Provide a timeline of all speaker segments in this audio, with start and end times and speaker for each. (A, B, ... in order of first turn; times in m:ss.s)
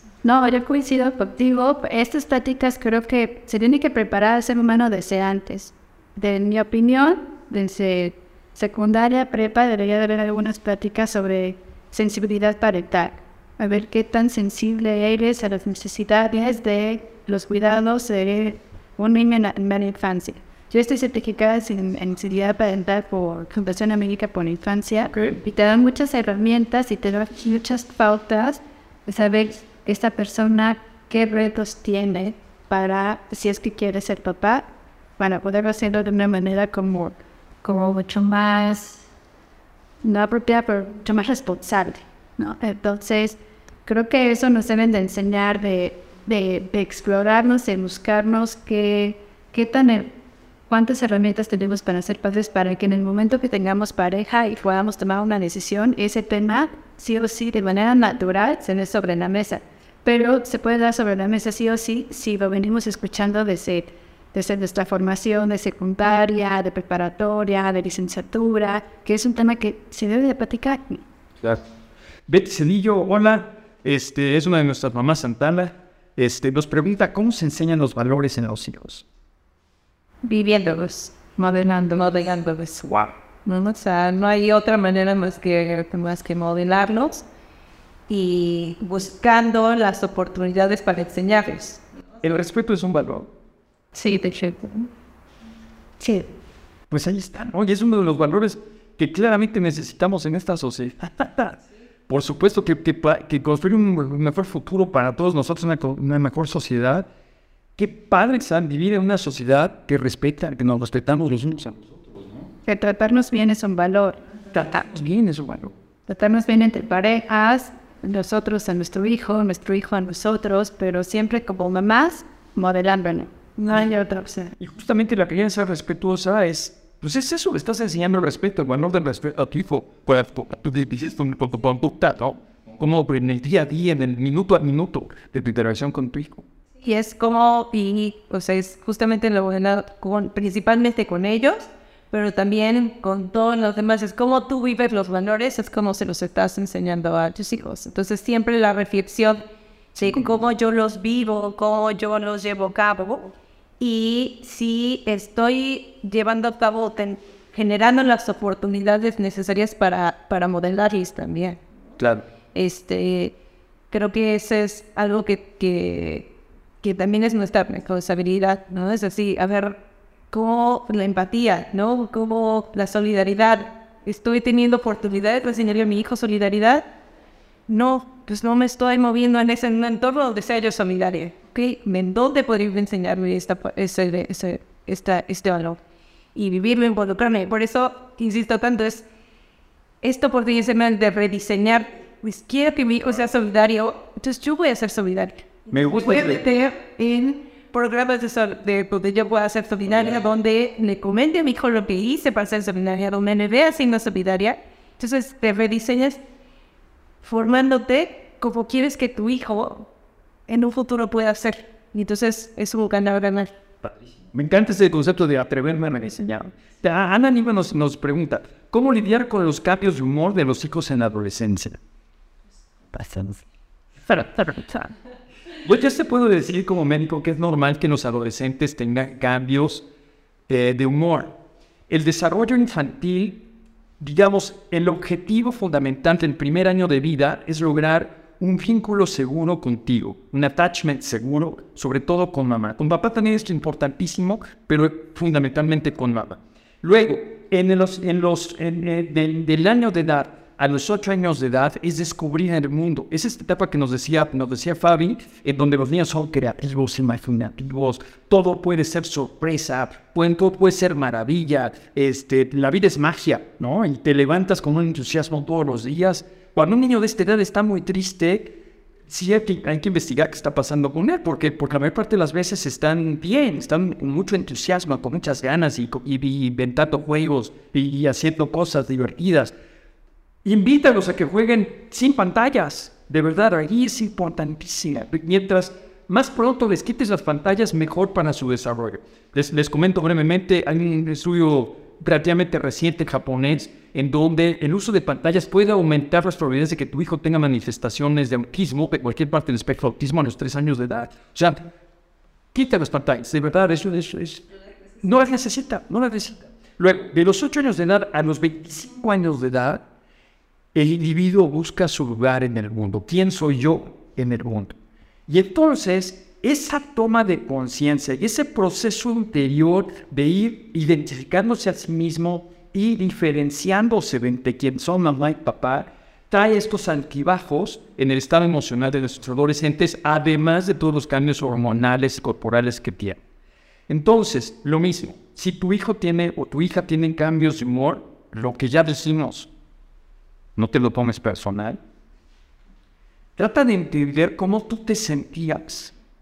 0:00.2-0:39.1 A
0:40.0-0:50.1 A
0:50.7-1:11.0 A
1:12.3-1:19.0 B
1:20.3-1:22.1 A
1:21.9-1:27.2 C
1:28.1-1:31.8 C
1:32.2-1:33.3 B
1:33.9-1:34.9 A
1:36.9-1:47.1 B
1:47.8-1:52.4 B
1:52.7-1:54.2 A
1:54.5-1:55.7 B
1:56.1-2:04.5 A
2:04.6-2:16.4 B
2:16.8-2:29.4 C
2:30.0-2:41.6 C
2:42.0-2:42.2 B
2:42.5-2:43.4 C
2:43.9-2:46.3 C
2:46.8-2:56.9 C
2:57.7-3:05.8 C
3:06.4-3:09.0 C
3:10.0-3:26.2 C
3:15.7-3:16.4 B
3:27.2-3:29.9 C
3:30.5-3:33.5 C
3:33.8-3:41.8 B
3:42.9-3:43.4 B
3:44.1-3:44.9 B
3:45.6-3:49.9 B
3:50.5-3:51.3 B
3:51.9-3:53.5 B
3:54.0-4:39.5 B
4:40.4-5:01.6 B
5:02.5-5:04.4 B
5:05.0-5:09.8 B
5:10.7-5:14.8 B
5:15.3-5:33.2 B
5:33.9-5:39.5 B
5:40.6-5:41.8 B
5:43.4-5:45.9 B